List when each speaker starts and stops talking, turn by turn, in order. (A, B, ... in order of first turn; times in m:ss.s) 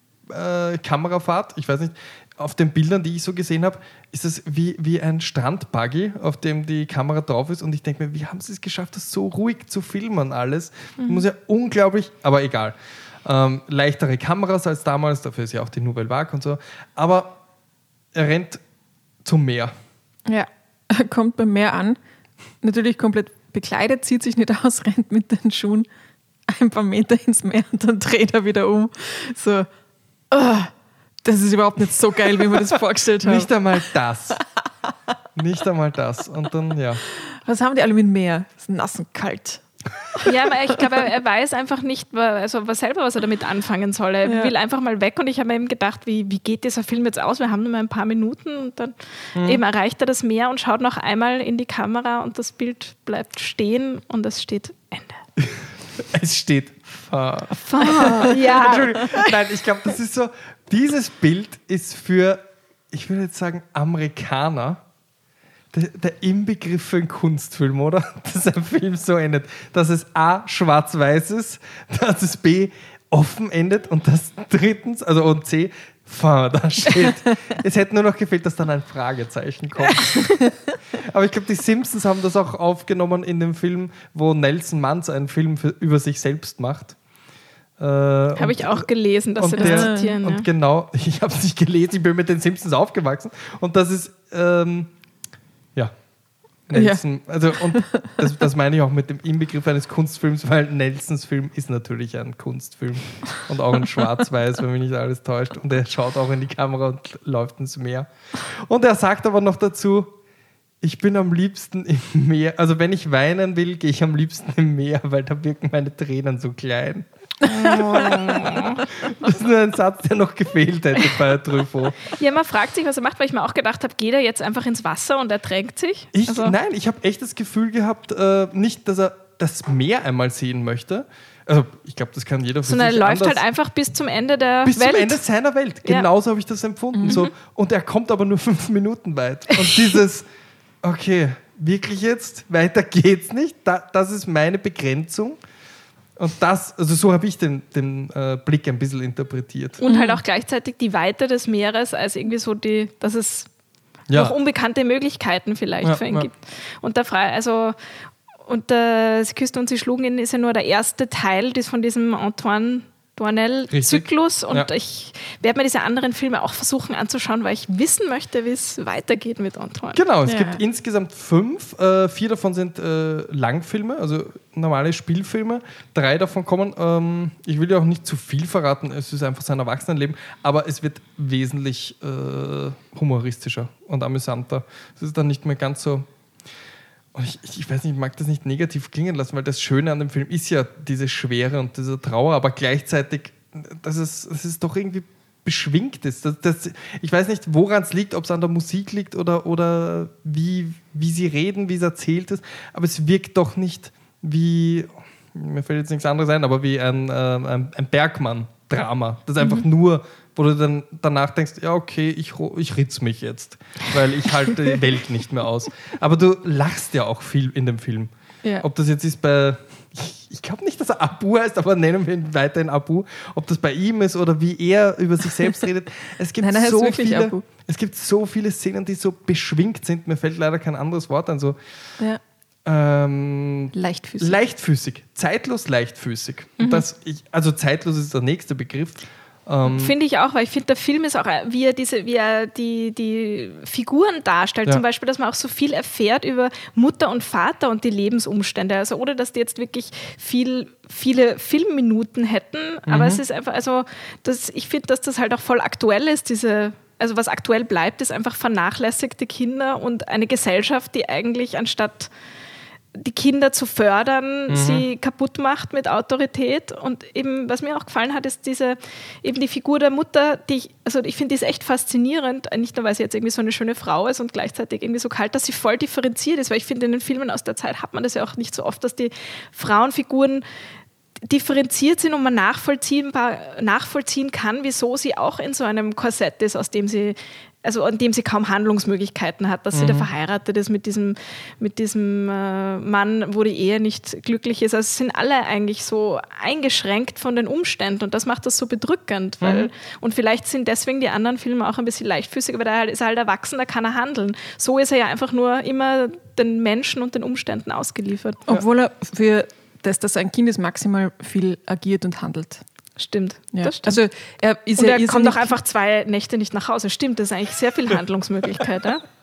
0:00.3-0:17.4 A
0:18.1-0:18.6 A
0:19.2-0:19.7 A
0:20.3-0:22.0 B
0:22.6-0:25.8 B
0:26.5-0:29.7 B
0:30.3-0:30.7 B
0:31.2-0:33.5 B
0:33.2-0:34.4 A
0:35.4-0:37.0 A
0:37.4-0:39.6 B
0:40.2-0:55.2 C
0:44.2-0:44.5 B
0:49.4-0:49.6 A
0:55.4-1:04.8 A
0:57.6-0:59.4 C
0:58.0-0:58.3 B
1:05.7-1:20.3 A
1:19.9-1:20.2 C
1:20.9-1:27.0 A
1:27.8-1:28.8 A
1:28.4-1:30.4 C
1:29.4-1:34.9 A
1:29.6-1:30.2 B
1:36.7-1:50.2 A
1:36.7-1:37.0 B
1:37.5-1:38.2 B
1:50.8-2:02.0 A
2:02.1-2:06.5 C
2:06.1-2:13.4 A
2:12.6-2:15.2 C
2:14.6-2:20.2 A
2:16.9-2:17.2 B
2:20.8-2:25.4 A
2:26.2-2:29.8 A
2:29.8-2:33.5 C
2:29.9-2:30.2 B
2:34.1-2:34.3 A
2:34.1-2:37.8 C
2:35.8-2:36.3 A
2:38.4-2:50.0 C
2:43.7-2:44.7 A
2:49.9-3:06.0 A
2:50.2-2:50.6 B
3:07.1-3:38.1 A
3:38.6-3:51.6 A
3:46.4-3:47.4 B
3:52.6-3:59.9 A
3:53.7-3:54.4 B
3:56.6-3:56.8 C
3:59.6-4:22.1 C
4:12.9-4:13.2 A
4:22.9-4:40.4 C
4:24.5-4:24.8 A
4:41.2-5:08.4 C
4:49.7-4:50.1 A
4:59.4-4:59.7 A
5:08.5-5:12.6 B
5:13.0-5:14.0 C
5:13.5-5:15.6 B
5:14.8-5:19.0 C